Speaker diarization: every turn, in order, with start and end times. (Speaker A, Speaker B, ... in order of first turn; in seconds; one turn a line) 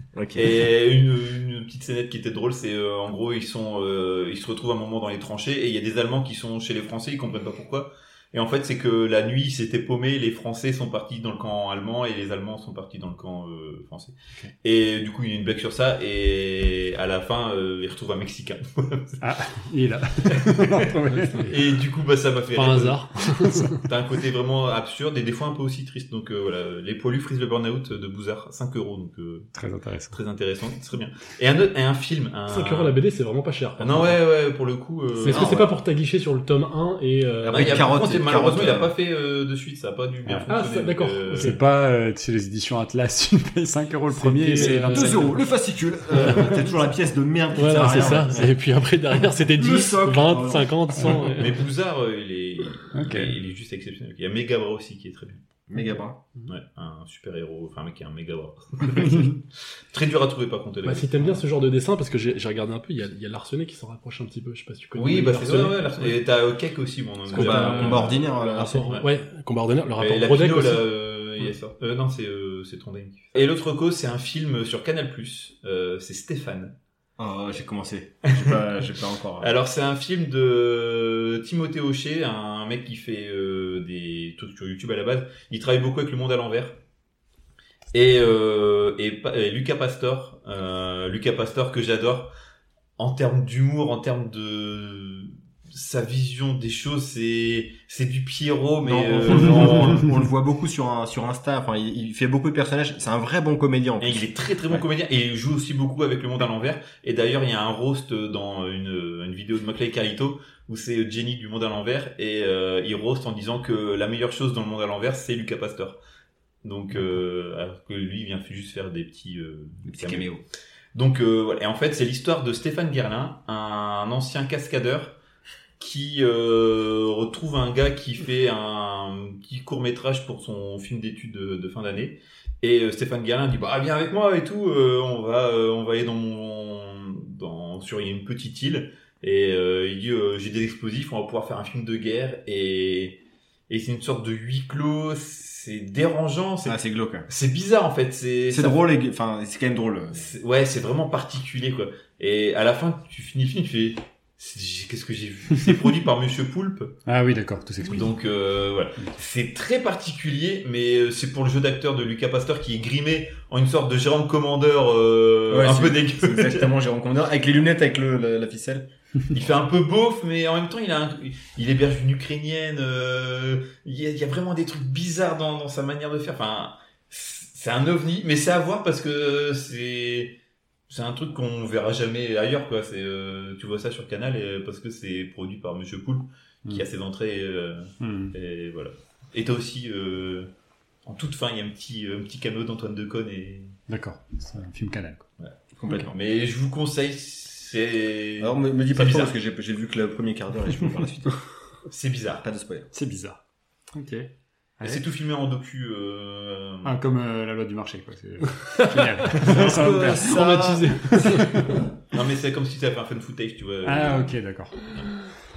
Speaker A: 0.1-0.5
Speaker B: 0.3-19.2
Speaker C: 19.2-21.5
Speaker B: 20.3-20.9
Speaker B: 21.4-23.0
Speaker D: 22.5-23.8
Speaker C: 23.4-23.8
Speaker B: 23.8-29.5
Speaker C: 29.6-30.2
Speaker B: 30.1-33.0
Speaker D: 32.5-34.2
Speaker B: 33.8-35.7
Speaker D: 35.2-38.0
Speaker A: 35.2-35.7
Speaker A: 37.4-38.9
Speaker B: 37.5-41.6
Speaker C: 40.2-40.5
Speaker D: 40.5-41.6
Speaker C: 41.3-45.5
Speaker D: 44.1-45.4
Speaker A: 44.5-48.6
Speaker C: 46.1-46.9
Speaker D: 46.2-46.5
Speaker D: 47.5-51.6
Speaker A: 49.6-51.2
Speaker C: 51.0-51.3
Speaker B: 51.2-55.4
Speaker C: 52.9-53.3
Speaker A: 55.7-56.2
Speaker B: 56.5-61.4
Speaker C: 59.0-59.4
Speaker D: 60.8-66.2
Speaker B: 64.9-68.2
Speaker D: 67.3-70.8
Speaker A: 67.3-68.9
Speaker B: 70.0-76.7
Speaker A: 77.2-79.5
Speaker B: 79.4-86.8
Speaker B: 87.9-92.3
Speaker B: 93.0-100.1
Speaker A: 98.8-104.8
Speaker B: 104.0-116.0
Speaker B: 116.6-120.3
Speaker A: 119.9-120.4
Speaker B: 120.9-125.2
Speaker B: 125.8-143.2
Speaker B: 143.7-148.8
Speaker A: 146.6-147.3
Speaker A: 148.5-150.3
Speaker B: 150.1-156.9
Speaker C: 157.1-158.1
Speaker B: 157.9-166.7
Speaker A: 165.5-168.9
Speaker B: 169.3-180.4
Speaker B: 180.9-190.5
Speaker C: 188.0-188.3
Speaker B: 191.1-193.7
Speaker C: 193.9-195.3
Speaker B: 195.4-199.3
Speaker A: 195.8-196.1
Speaker A: 198.4-201.4
Speaker B: 201.8-202.4
Speaker A: 202.4-202.9
Speaker C: 202.9-203.4
Speaker C: 203.9-205.0
Speaker B: 204.8-206.9
Speaker C: 206.8-210.4
Speaker D: 208.5-211.6
Speaker A: 209.4-211.5
Speaker C: 211.2-211.8
Speaker B: 212.1-214.4
Speaker C: 213.8-214.8